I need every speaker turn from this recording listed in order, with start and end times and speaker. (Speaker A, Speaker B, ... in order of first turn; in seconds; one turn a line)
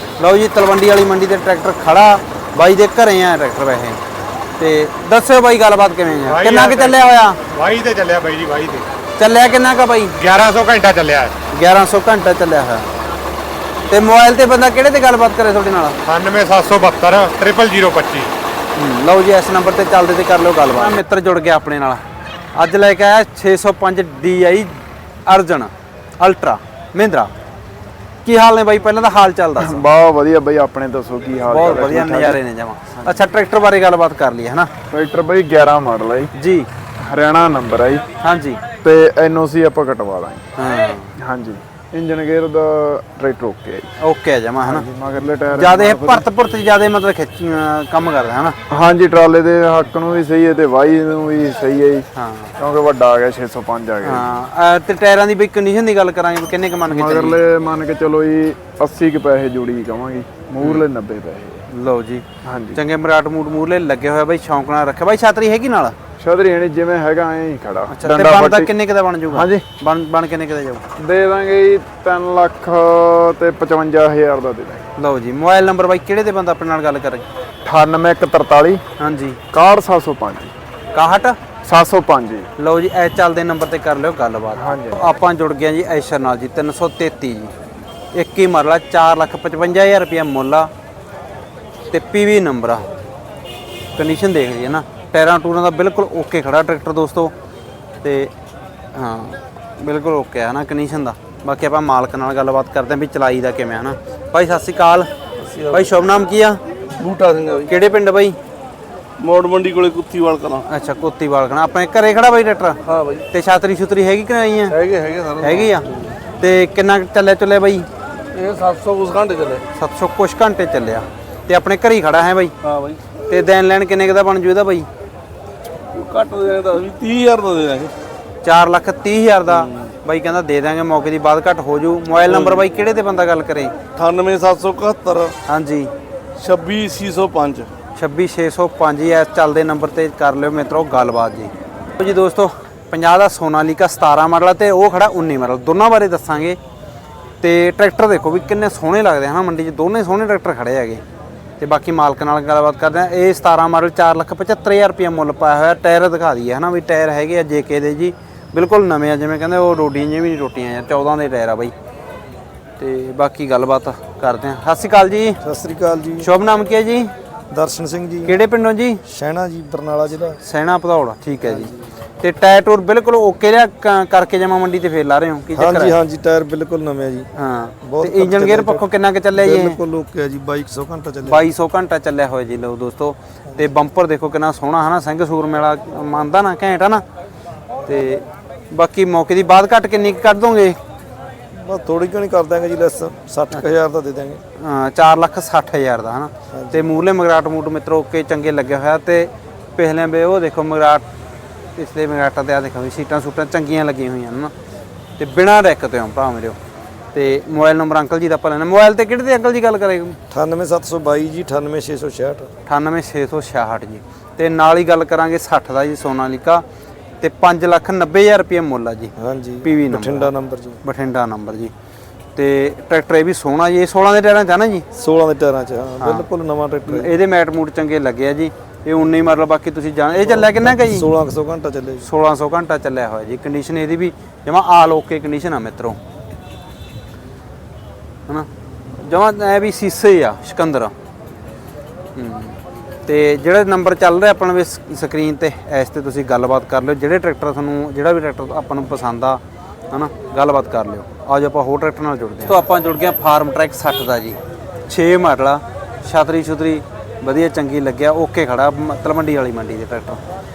Speaker A: 0.2-4.0
Speaker A: 4.6-7.4
Speaker B: 6.2-8.9
Speaker A: 9.2-10.2
Speaker B: 10.2-11.3
Speaker A: 11.5-12.9
Speaker A: 13.9-16.0
Speaker B: 16.1-18.3
Speaker A: 18.7-22.0
Speaker A: 22.5-27.3
Speaker A: 28.2-29.9
Speaker C: 29.6-32.4
Speaker A: 31.5-34.7
Speaker C: 34.9-36.3
Speaker A: 36.4-36.7
Speaker C: 37.0-38.0
Speaker A: 38.2-38.6
Speaker C: 38.8-40.5
Speaker A: 40.6-41.1
Speaker C: 41.2-43.9
Speaker A: 44.0-44.9
Speaker C: 44.6-46.2
Speaker A: 45.5-48.5
Speaker C: 48.7-52.0
Speaker A: 52.1-52.5
Speaker C: 52.6-54.3
Speaker A: 54.0-57.4
Speaker C: 56.9-61.6
Speaker A: 60.6-60.8
Speaker A: 61.7-65.9
Speaker C: 62.4-62.8
Speaker C: 66.2-68.7
Speaker A: 67.9-70.8
Speaker C: 69.3-69.6
Speaker C: 71.0-74.8
Speaker A: 75.0-77.2
Speaker C: 77.6-78.8
Speaker A: 79.0-79.4
Speaker C: 79.5-80.5
Speaker A: 80.9-81.3
Speaker C: 81.6-82.5
Speaker A: 82.6-87.5
Speaker C: 84.5-85.0
Speaker A: 88.1-90.7
Speaker A: 91.9-92.8
Speaker A: 94.0-97.3
Speaker A: 98.0-98.3
Speaker A: 98.9-105.1
Speaker D: 105.4-105.9
Speaker A: 105.7-106.6
Speaker D: 107.0-107.7
Speaker A: 107.7-108.4
Speaker D: 109.2-110.6
Speaker A: 110.7-112.8
Speaker D: 112.9-113.2
Speaker A: 113.3-114.8
Speaker D: 114.7-115.7
Speaker A: 115.4-115.9
Speaker A: 116.4-117.9
Speaker D: 118.3-119.6
Speaker A: 119.8-122.5
Speaker D: 122.6-123.0
Speaker A: 123.3-124.9
Speaker D: 125.9-127.9
Speaker A: 128.4-133.7
Speaker D: 132.3-132.6
Speaker D: 133.9-135.3
Speaker A: 135.5-135.9
Speaker D: 136.4-137.7
Speaker A: 137.9-146.6
Speaker A: 147.4-151.0
Speaker A: 151.6-161.7
Speaker A: 162.8-165.4
Speaker E: 165.4-166.3
Speaker A: 166.2-167.1
Speaker E: 167.5-168.3
Speaker A: 168.2-169.0
Speaker E: 169.1-170.4
Speaker A: 170.4-171.7
Speaker E: 171.4-171.7
Speaker A: 172.2-175.9
Speaker E: 175.6-177.3
Speaker A: 177.3-179.8
Speaker E: 177.8-181.4
Speaker A: 181.2-187.0
Speaker A: 187.8-190.8
Speaker E: 191.5-194.4
Speaker A: 194.6-201.0
Speaker E: 196.5-196.8
Speaker A: 201.8-204.5
Speaker A: 205.2-206.6
Speaker A: 207.1-210.2
Speaker E: 210.3-212.5
Speaker A: 212.7-216.6
Speaker A: 217.2-219.1
Speaker E: 219.2-220.8
Speaker A: 219.6-220.3
Speaker A: 220.8-221.7
Speaker A: 222.3-224.8
Speaker E: 224.9-227.1
Speaker A: 226.0-226.2
Speaker A: 226.9-231.1
Speaker E: 230.2-232.1
Speaker A: 232.0-236.0
Speaker A: 238.3-240.9
Speaker A: 242.2-260.2